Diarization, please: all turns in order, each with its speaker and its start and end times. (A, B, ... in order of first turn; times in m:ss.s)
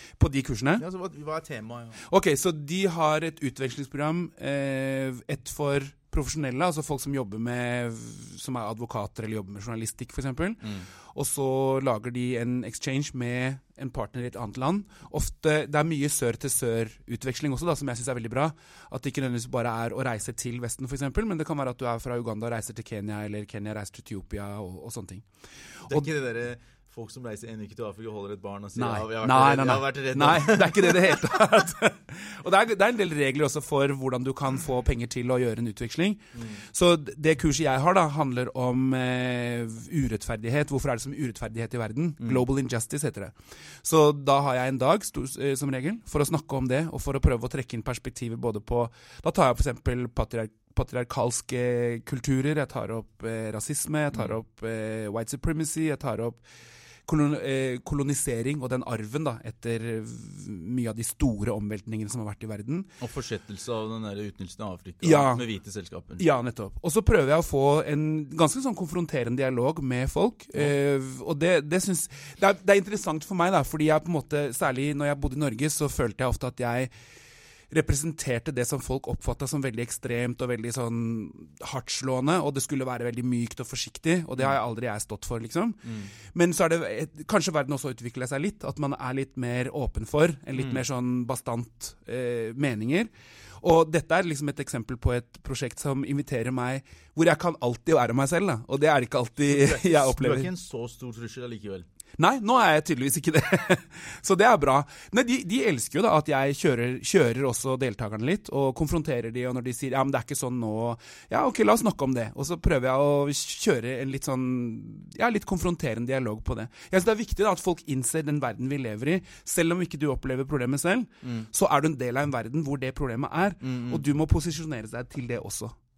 0:00.2-0:00.8 A
0:00.8-0:02.0 B
0:02.0-0:25.3 A
0:10.6-0:10.9 B
0:25.8-0:26.1 A
0:25.8-0:31.4 B
0:28.8-0:56.4 A
0:36.3-0:36.6 B
0:57.0-1:02.9 A
1:03.0-1:06.2 B
1:05.0-1:05.4 A
1:06.2-1:16.9 A
1:17.7-1:40.5 A
1:25.8-1:26.1 B
1:30.6-1:30.8 B
1:39.5-1:41.9 B
1:42.2-2:05.8 A
2:01.2-2:01.5 B
2:03.6-2:04.0 B